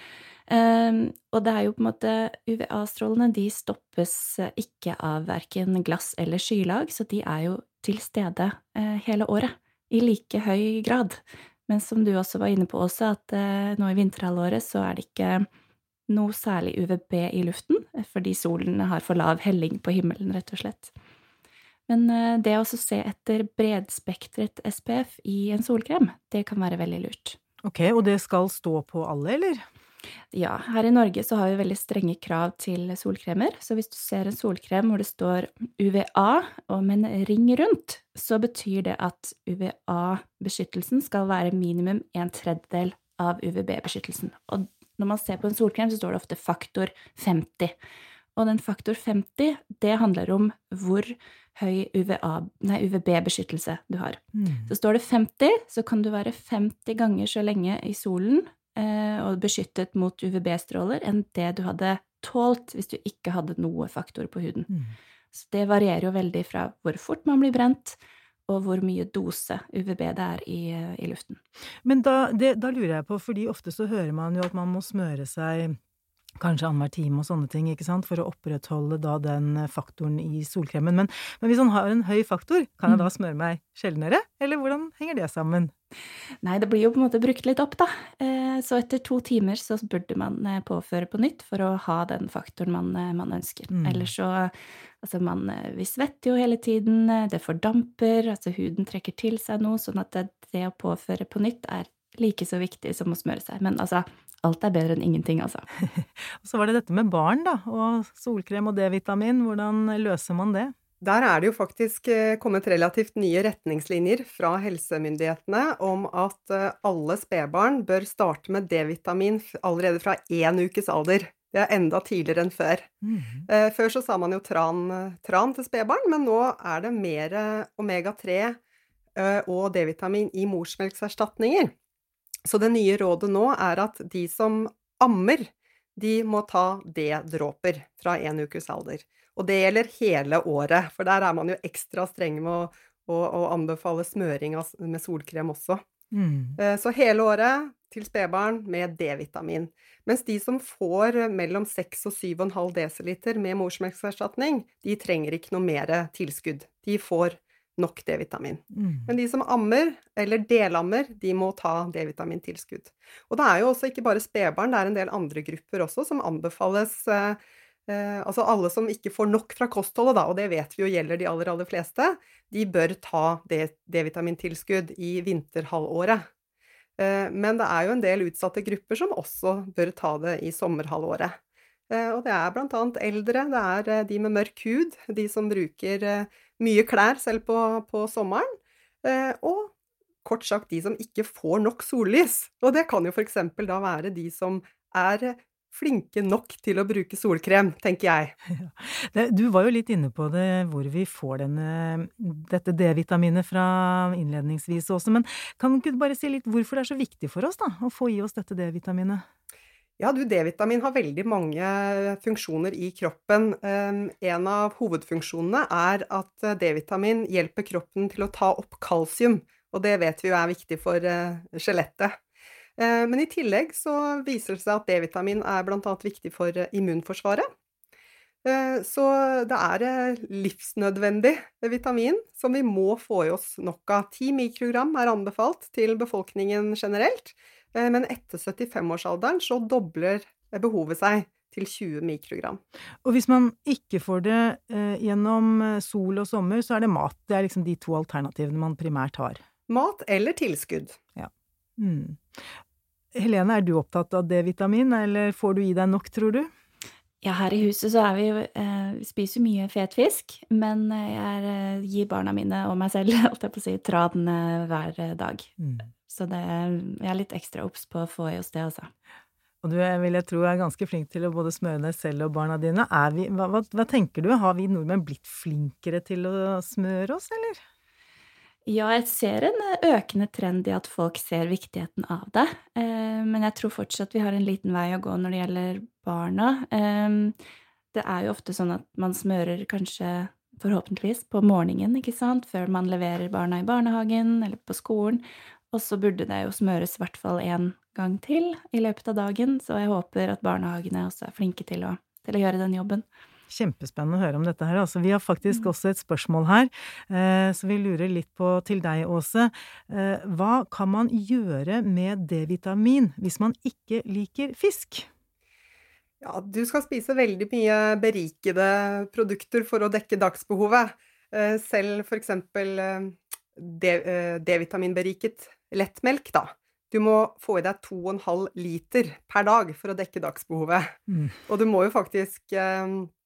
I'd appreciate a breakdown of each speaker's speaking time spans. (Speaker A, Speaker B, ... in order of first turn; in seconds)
Speaker A: 0.5-15.4, 16.1-20.9, 21.9-27.4, 30.3-47.8, 48.4-64.7, 65.3-71.4, 86.4-105.7, 257.2-268.9, 278.6-287.3, 287.9-303.0
Speaker B: 27.6-29.6, 54.3-54.7, 64.7-65.0, 71.8-75.8, 76.4-85.7, 93.7-94.1, 105.9-110.7, 123.0-123.5, 146.1-146.6, 158.8-159.1, 198.5-209.2, 243.0-249.4, 251.2-252.4, 253.1-256.5, 265.6-265.9, 269.6-277.6, 303.5-315.1
Speaker C: 111.0-122.9, 123.5-128.6, 129.2-131.7, 132.4-145.8, 146.6-176.3, 177.0-181.3, 181.9-189.7, 190.2-198.3, 210.0-222.2, 222.8-227.4, 228.4-242.6, 249.7-251.0, 316.2-333.1